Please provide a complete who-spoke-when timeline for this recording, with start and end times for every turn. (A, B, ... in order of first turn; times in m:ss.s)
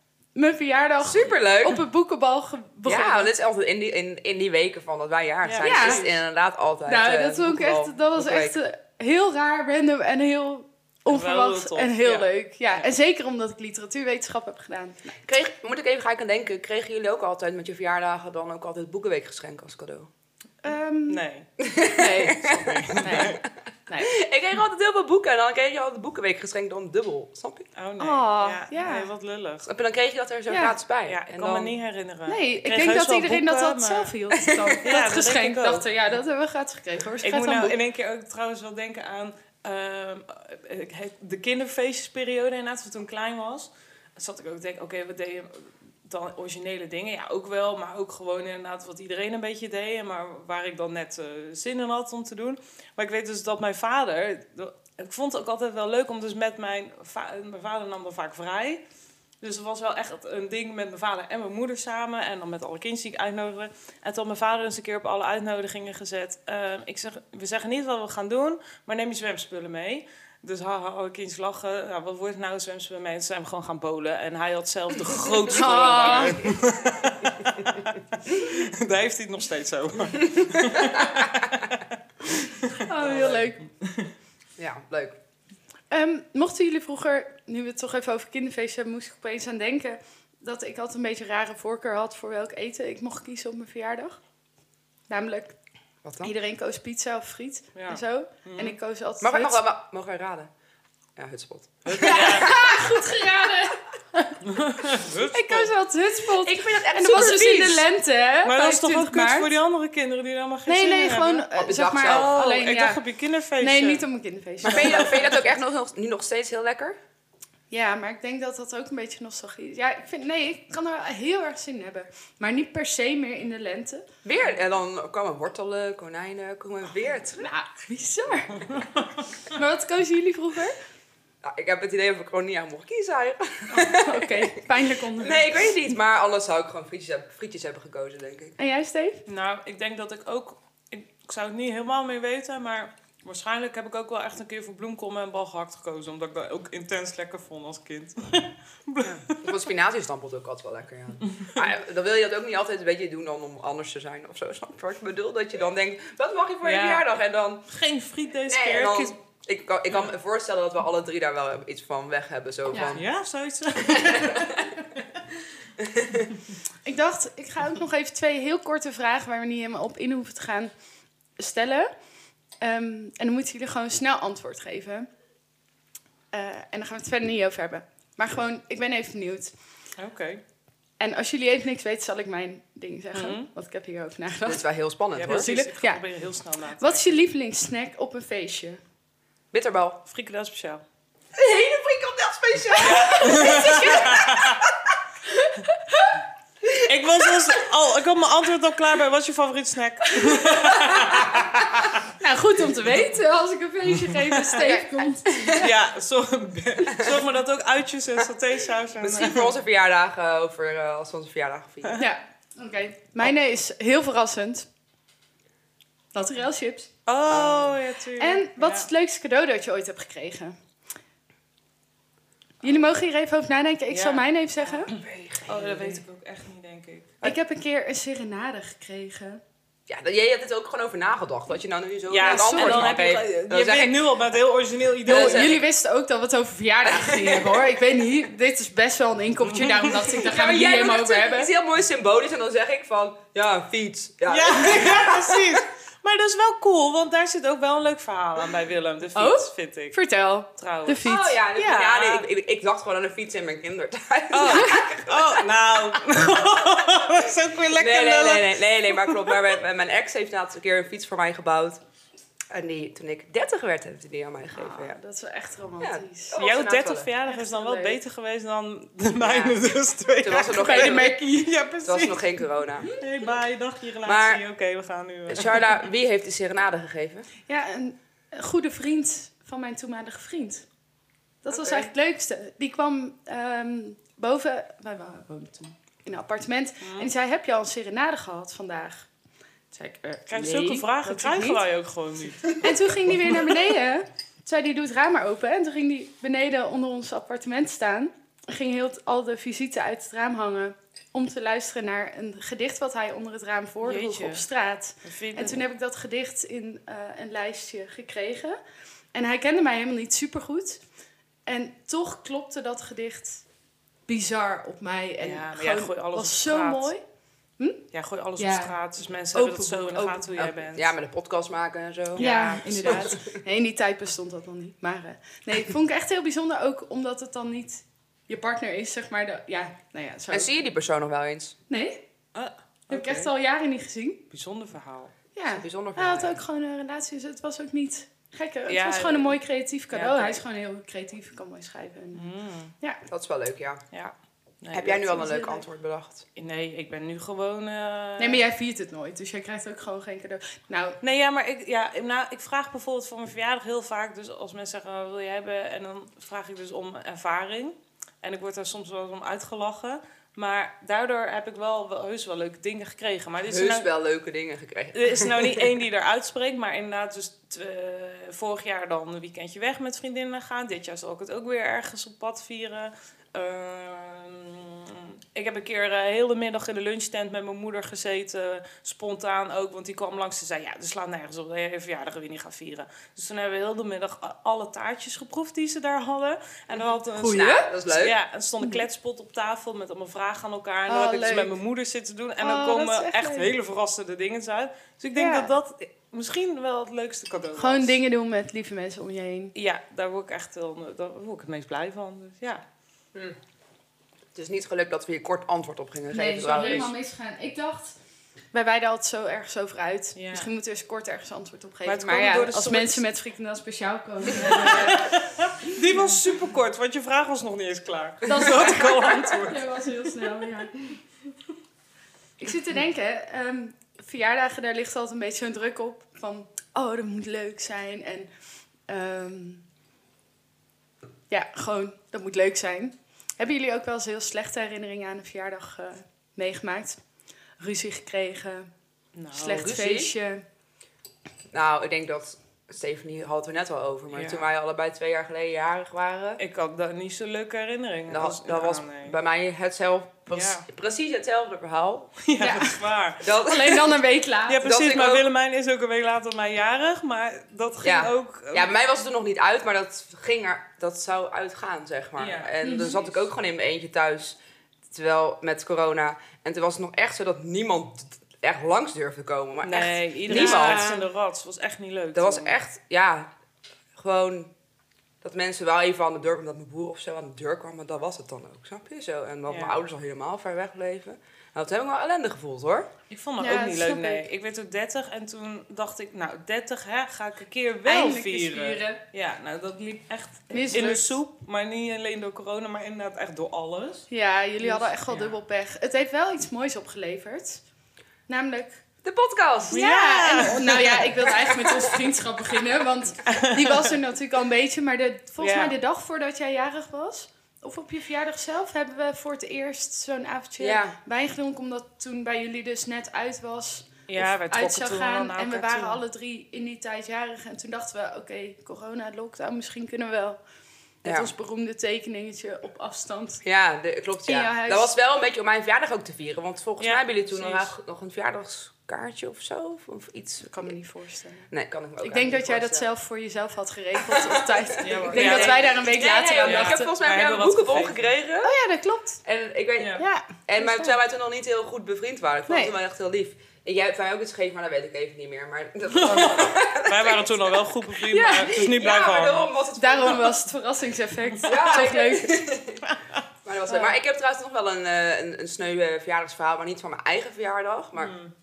0:00.3-0:03.3 A
0:01.0-0:01.8 B
0:02.8-0:08.6 B
0:05.4-0:06.1 C
0:05.6-0:06.0 A
0:06.8-0:15.2 A
0:11.1-0:12.3 C
0:15.2-0:20.1 B
0:20.6-0:21.2 A
0:21.1-0:21.5 C
0:21.6-0:23.4 B
0:21.9-0:24.1 A
0:22.4-0:23.4 C
0:24.0-0:27.7 B
0:27.8-0:29.7 C
0:28.0-0:29.1 A
0:29.6-0:31.8 B
0:30.5-0:30.8 A
0:31.1-0:34.1 C
0:32.3-0:37.8 A
0:34.4-0:34.8 B
0:34.8-0:35.9 C
0:37.2-0:58.8 C
0:59.4-1:24.1 C
1:15.5-1:16.6 A
1:15.6-1:16.8 B
1:20.8-1:21.0 B
1:22.7-1:23.6 A
1:23.0-1:23.4 B
1:24.6-1:25.2 B
1:25.9-1:34.2 A
1:35.1-1:35.5 A
1:36.0-1:36.3 B
1:36.2-1:39.6 A
1:37.7-1:38.8 C
1:39.2-1:40.5 B
1:41.2-1:42.8 B
1:41.8-1:42.5 C
1:41.9-1:44.4 A
1:44.4-1:45.7 C
1:45.3-1:49.5 A
1:46.4-1:47.8 B
1:48.4-1:51.4 C
1:50.7-1:53.0 A
1:51.6-1:52.3 B
1:52.0-1:54.0 C
1:53.6-1:55.4 A
1:54.6-1:57.0 B
1:57.7-2:04.1 A
2:04.2-2:07.5 B
2:07.4-2:08.8 A
2:09.5-2:10.8 A
2:11.4-2:14.6 B
2:13.7-2:15.6 A
2:15.1-2:18.6 B
2:18.6-2:19.2 A
2:19.3-2:29.5 C
2:29.0-2:37.6 B
2:36.6-2:37.0 C
2:37.7-2:39.2 C
2:38.4-2:43.0 B
2:42.7-2:43.0 A
2:42.8-2:44.9 C
2:43.9-2:44.6 B
2:45.8-2:46.3 B
2:46.8-2:50.7 A
2:51.4-2:51.9 A
2:52.6-2:55.1 A
2:56.3-2:59.5 A
3:00.0-3:00.4 C
3:01.0-3:04.6 A
3:03.1-3:03.5 C
3:04.4-3:05.5 B
3:05.1-3:07.0 C
3:05.2-3:06.0 A
3:06.8-3:08.8 A
3:09.5-3:10.0 B
3:10.1-3:10.8 C
3:11.3-3:14.7 B
3:12.7-3:14.4 A
3:12.8-3:14.6 C
3:15.3-3:16.1 A
3:16.8-3:21.4 C
3:20.1-3:21.5 A
3:22.1-3:25.6 A
3:24.5-3:25.6 B
3:25.6-3:29.6 C
3:26.9-3:27.2 B
3:29.0-3:32.0 B
3:32.0-3:34.7 A
3:36.1-3:36.9 A
3:37.0-3:38.9 C
3:37.3-3:37.8 B
3:38.2-3:40.6 A
3:42.6-3:44.9 A
3:43.9-3:47.1 C
3:44.9-3:46.0 B
3:47.2-3:49.4 A
3:49.9-3:54.0 B
3:52.1-3:55.6 C
3:52.2-3:53.0 A
3:55.0-3:55.6 B
3:55.0-4:01.5 A
3:56.8-3:57.7 B
3:59.5-3:59.9 C
4:00.1-4:05.4 B
4:04.3-4:10.0 C
4:09.2-4:12.0 A
4:10.6-4:11.1 C
4:11.0-4:16.0 B
4:11.9-4:12.2 C
4:14.3-4:19.4 C
4:14.4-4:14.8 A
4:17.7-4:21.8 B
4:22.5-4:25.0 B
4:24.5-4:26.4 A
4:25.8-4:27.1 B
4:26.4-4:35.7 C
4:27.2-4:28.0 A
4:29.2-4:29.6 B
4:30.2-4:31.2 B
4:30.5-4:31.5 A
4:31.8-4:32.9 B
4:34.0-4:34.4 B
4:35.3-4:37.3 B
4:37.5-4:40.6 A
4:41.4-4:49.1 A
4:41.5-4:41.9 B
4:46.8-4:47.1 C
4:49.7-4:51.6 A
4:50.3-4:52.6 C
4:52.6-5:08.6 A
5:03.8-5:04.4 C
5:05.0-5:05.6 C
5:09.1-5:10.8 A
5:11.4-5:13.4 A
5:14.1-5:17.0 A
5:15.2-5:16.9 C
5:17.6-5:17.8 A
5:17.9-5:20.9 C
5:18.4-5:18.8 A
5:19.3-5:20.5 A
5:20.4-5:23.4 B
5:22.2-5:23.1 C
5:22.2-5:30.5 A
5:30.3-5:31.6 B
5:31.7-5:32.0 A
5:32.3-5:33.3 C
5:32.9-5:34.2 A
5:34.3-5:35.1 C
5:35.3-5:42.2 A
5:35.5-5:36.4 B
5:38.7-5:39.4 C
5:39.9-5:40.4 C
5:42.1-5:42.7 C
5:43.1-5:43.8 B
5:43.9-5:45.0 C
5:44.7-5:46.3 B
5:44.9-5:45.6 A
5:46.4-5:48.4 C
5:48.2-5:51.0 A
5:51.0-6:03.9 C
6:03.5-6:05.6 B
6:04.9-6:38.0 C
6:27.1-6:27.7 A
6:27.3-6:28.2 B
6:30.9-6:31.5 A
6:32.4-6:33.5 A
6:35.2-6:35.5 A
6:37.6-6:39.5 A
6:39.5-6:42.6 C
6:44.3-6:46.9 B
6:46.1-6:48.0 A
6:46.4-6:46.9 C
6:48.5-6:55.2 A
6:50.1-6:50.5 C
6:51.8-6:53.0 C
6:54.4-7:00.5 C
6:58.2-7:00.9 A
7:02.4-7:08.3 A
7:08.9-7:09.6 A
7:11.3-7:17.0 A
7:17.6-7:18.7 A
7:19.2-7:19.7 C
7:19.3-7:20.4 A
7:19.5-7:20.1 B
7:21.5-7:26.4 B
7:24.1-7:24.4 C
7:26.4-7:29.1 C
7:28.1-7:32.2 B
7:30.3-7:30.6 C
7:32.2-7:33.8 C
7:32.4-7:32.8 A
7:33.2-7:33.9 B
7:33.3-7:34.6 A
7:34.5-7:38.7 C
7:34.6-7:35.3 B
7:37.8-7:44.4 B
7:42.2-7:43.0 C
7:42.6-7:42.9 A
7:44.9-7:50.9 B
7:49.6-7:52.6 C
7:50.3-7:51.0 A
7:52.1-7:53.3 B
7:53.9-7:54.5 B
7:55.2-8:02.9 B
7:59.5-7:59.8 C
8:03.1-8:14.1 C
8:03.4-8:04.2 A
8:07.8-8:09.0 A
8:10.5-8:11.2 A
8:14.1-8:17.6 A
8:14.6-8:15.4 C
8:18.3-8:18.8 A
8:19.0-8:19.8 B
8:19.7-8:21.1 C
8:19.7-8:40.4 A
8:21.3-8:21.8 B
8:23.2-8:23.9 C
8:25.4-8:25.8 C
8:30.6-8:31.0 B
8:34.1-8:36.0 C
8:41.0-8:41.3 B
8:41.0-8:43.4 A
8:43.4-8:50.7 B
8:44.2-8:44.9 A
8:46.8-8:47.7 C
8:50.5-8:56.9 A
8:51.5-8:52.9 B
8:54.0-8:58.5 B
8:54.8-8:58.1 C
8:58.4-8:59.2 A
8:59.2-9:10.4 B
8:59.8-9:00.0 C
9:00.0-9:01.0 A
9:02.5-9:02.7 A
9:05.9-9:09.5 C
9:09.8-9:12.5 A
9:11.4-9:12.8 B
9:13.4-9:18.1 B
9:13.7-9:13.9 A
9:18.0-9:18.3 C